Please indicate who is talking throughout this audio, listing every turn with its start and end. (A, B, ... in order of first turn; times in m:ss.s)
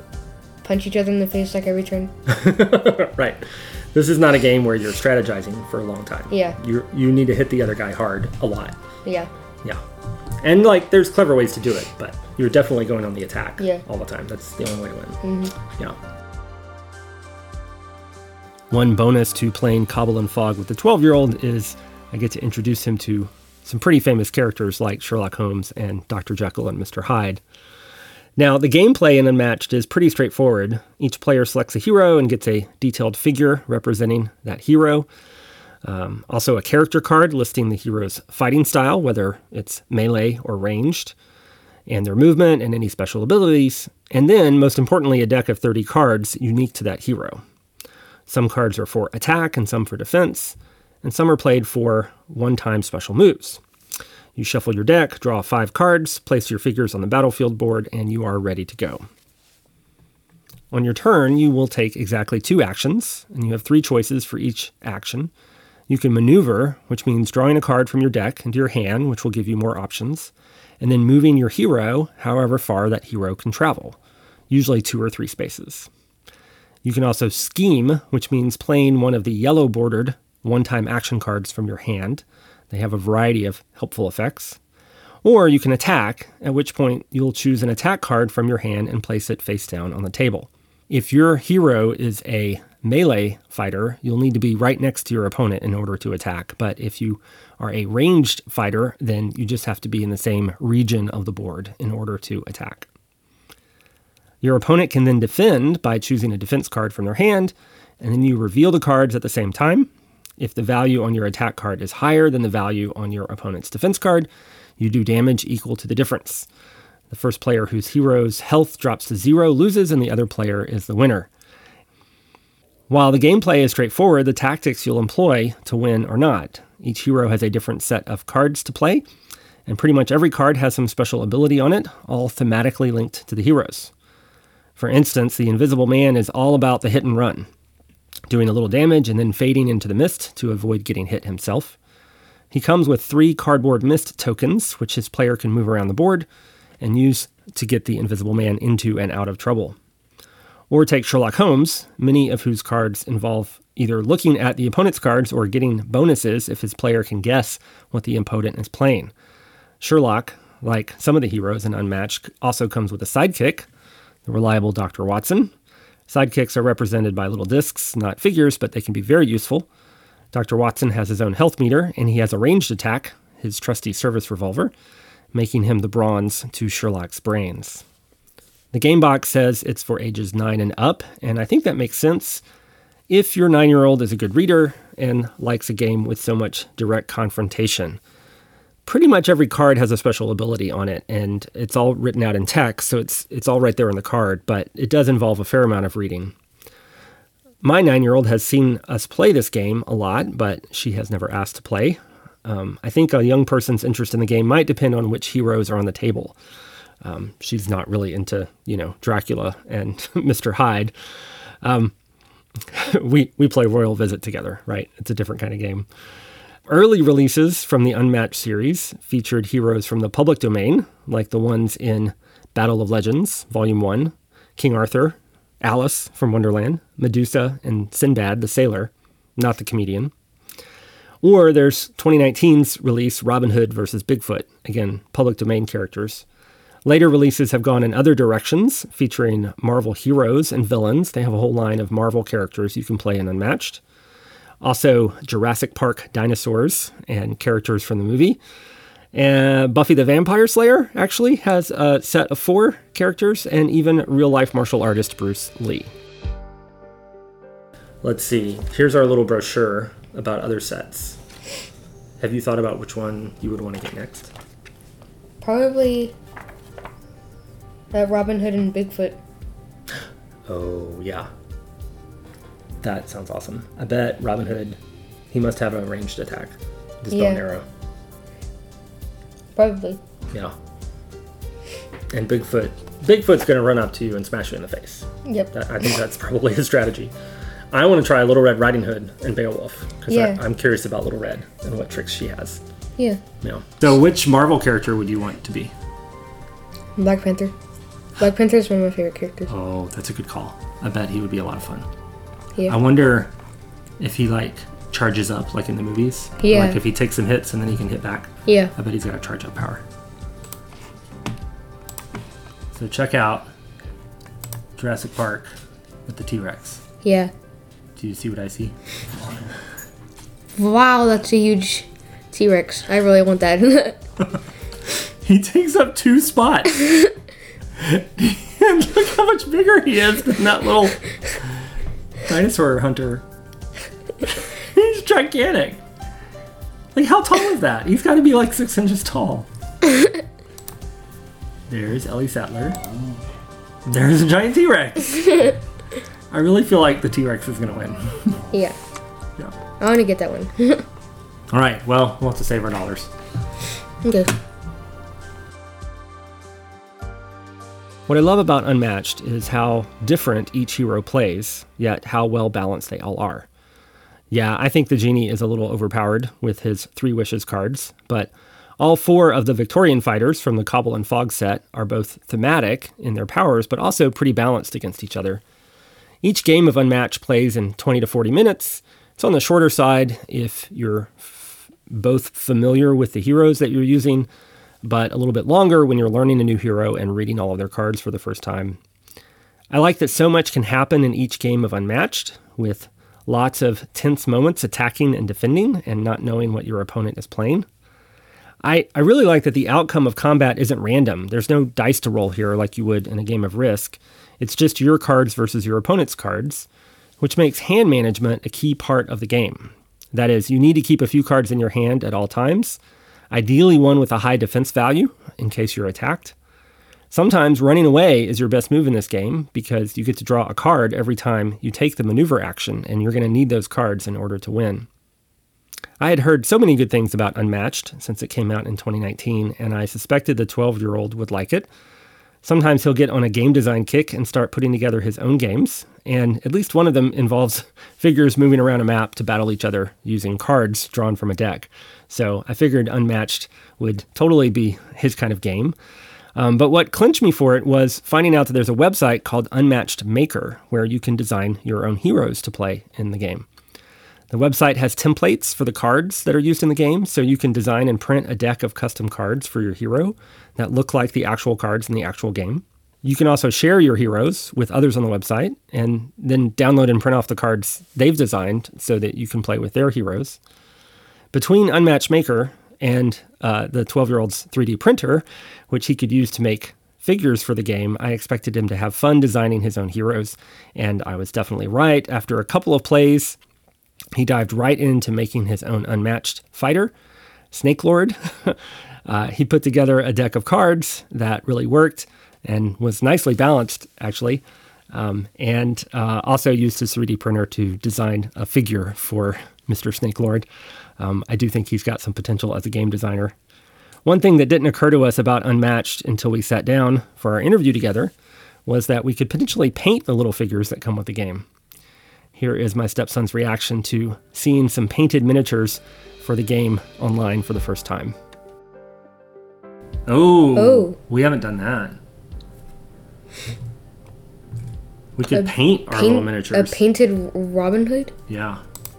0:00.6-0:02.1 A
0:02.2-0:08.8 B
0:06.3-0:06.6 A
0:09.0-0:09.3 A
0:10.4-0:15.2 B
0:15.2-0:15.6 A
0:18.7-0:27.4 B
0:28.4-0:35.1 B
0:35.8-0:41.1 B
0:41.9-0:47.4 B
0:48.3-0:53.6 B
0:54.4-0:59.0 B
1:00.7-1:05.3 B
1:05.9-1:14.0 B
1:14.5-1:15.9 B
1:16.8-1:24.6 B
1:25.2-1:42.9 B
1:44.4-1:56.5 B
1:57.1-2:01.3 B
2:02.9-2:09.0 B
2:09.7-2:13.9 B
2:14.8-2:17.5 B
2:18.3-2:21.8 B
2:22.5-2:26.3 B
2:26.8-2:29.8 B
2:30.7-2:39.1 B
2:39.8-2:43.7 B
2:44.2-2:45.5 B
2:46.1-2:49.7 B
2:50.3-2:54.7 B
2:55.3-2:57.8 B
2:58.7-3:02.4 B
3:03.1-3:08.0 B
3:08.8-3:16.3 B
3:17.6-3:26.4 B
3:27.0-3:30.9 B
3:31.6-3:31.9 B
3:32.6-3:35.9 B
3:36.7-3:50.1 B
3:51.2-3:56.2 B
3:56.8-4:03.8 B
4:04.6-4:08.4 B
4:09.1-4:15.9 B
4:18.0-4:21.2 B
4:22.2-4:24.3 B
4:25.4-4:26.2 A
4:27.9-4:29.2 A
4:30.5-4:31.3 B
4:32.8-4:34.8 B
4:35.3-4:37.6 B
4:37.1-4:37.4 A
4:39.6-4:40.0 A
4:42.1-4:47.1 B
4:45.2-4:45.5 A
4:47.7-4:52.6 B
4:50.1-4:50.4 A
4:53.4-4:55.7 B
4:57.0-4:57.5 A
4:58.2-4:59.5 A
4:59.5-5:01.9 B
5:02.7-5:03.3 B
5:04.0-5:09.8 B
5:06.4-5:06.8 A
5:08.4-5:08.7 A
5:12.7-5:13.5 B
5:14.8-5:15.5 B
5:16.0-5:16.8 B
5:17.0-5:17.3 A
5:18.0-5:18.7 B
5:20.5-5:24.0 A
5:25.2-5:27.0 B
5:27.8-5:31.0 B
5:32.2-5:33.2 B
5:34.2-5:35.8 B
5:36.9-5:39.5 B
5:41.7-5:42.8 B
5:43.8-5:45.6 B
5:46.3-5:48.4 B
5:48.5-5:48.8 A
5:49.8-5:50.8 A
5:51.5-5:53.1 B
5:54.0-5:54.3 A
5:58.1-6:03.5 B
6:04.3-6:15.4 B
6:16.2-6:24.3 B
6:24.8-6:28.8 B
6:29.7-6:37.7 B
6:38.6-6:46.7 B
6:47.2-6:52.8 B
6:53.3-6:56.3 B
6:57.1-7:04.9 B
7:06.0-7:11.7 B
7:12.4-7:25.8 B
7:26.4-7:33.4 B
7:34.3-7:50.4 B
7:51.3-8:03.4 B
8:04.1-8:06.9 B
8:07.5-8:20.5 B
8:21.0-8:23.3 B
8:24.0-8:28.1 B
8:28.6-8:31.4 B
8:32.3-8:38.2 B
8:40.1-8:42.0 B
8:40.5-8:41.0 A
8:45.2-8:46.8 B
8:45.3-8:48.1 A
8:48.3-8:48.6 B